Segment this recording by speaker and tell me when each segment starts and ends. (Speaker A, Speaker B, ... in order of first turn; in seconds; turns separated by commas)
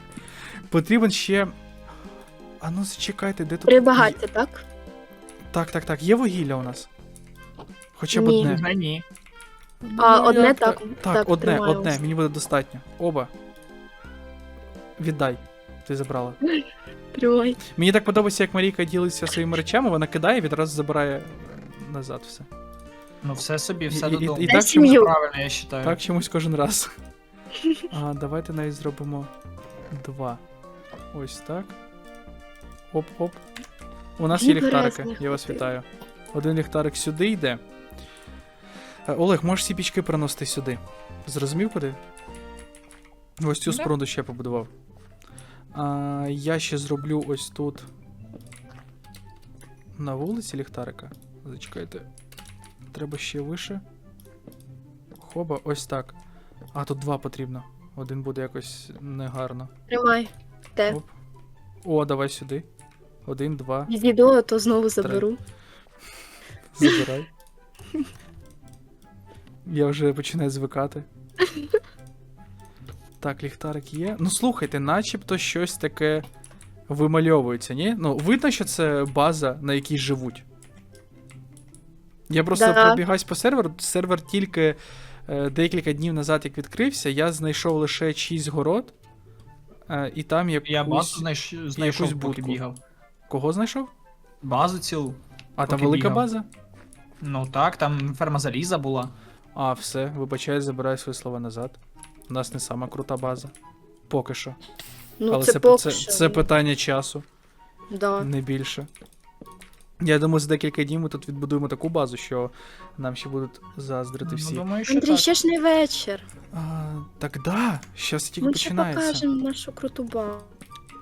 Speaker A: 0.7-1.6, Speaker A: 2.6-4.2, Speaker B: 3.7-4.7, Speaker A: 5.5-6.9, Speaker A: 8.0-8.6, Speaker B: 8.1-8.5, Speaker C: 8.3-9.1, Speaker A: 9.8-13.3, Speaker B: 10.0-12.0, Speaker A: 15.0-16.4, Speaker B: 16.5-17.6, Speaker A: 17.7-22.5, Speaker C: 23.2-26.0, Speaker A: 23.9-25.0, Speaker B: 24.5-25.1, Speaker A: 25.8-26.9, Speaker A: 27.9-29.3, Speaker A: 29.9-30.4, Speaker A: 31.1-31.8, Speaker A: 32.9-33.4, Speaker A: 34.2-37.6, Speaker B: 34.3-35.6, Speaker A: 39.1-42.0, Speaker A: 43.4-44.7, Speaker A: 45.7-47.9, Speaker A: 50.0-52.1, Speaker A: 52.9-53.8, Speaker A: 55.2-56.2, Speaker A: 56.7-59.7, Speaker B: 59.9-61.0, Speaker A: 61.9-62.7, Speaker A: 63.3-63.9, Speaker B: 63.9-65.4, Speaker A: 65.0-65.3, Speaker A: 66.7-67.3, Speaker A: 69.7-71.1, Speaker A: 73.2-76.2, Speaker A: 76.9-80.4, Speaker A: 82.3-88.9, Speaker B: 82.5-83.0, Speaker A: 89.9-91.2, Speaker C: 90.7-92.8, Speaker A: 91.8-92.6, Speaker A: 93.3-93.9, Speaker C: 94.4-96.3, Speaker A: 95.6-96.5, Speaker C: 97.2-99.1, Speaker A: 99.5-103.5, Speaker A: 104.1-104.6, Speaker B: 105.2-106.5, Speaker A: 105.3-107.2, Speaker B: 107.9-108.3, Speaker A: 108.2-108.9, Speaker A: 110.0-114.7, Speaker C: 114.2-115.3, Speaker B: 114.9-116.3, Speaker A: 116.5-119.2, Speaker B: 118.4-120.5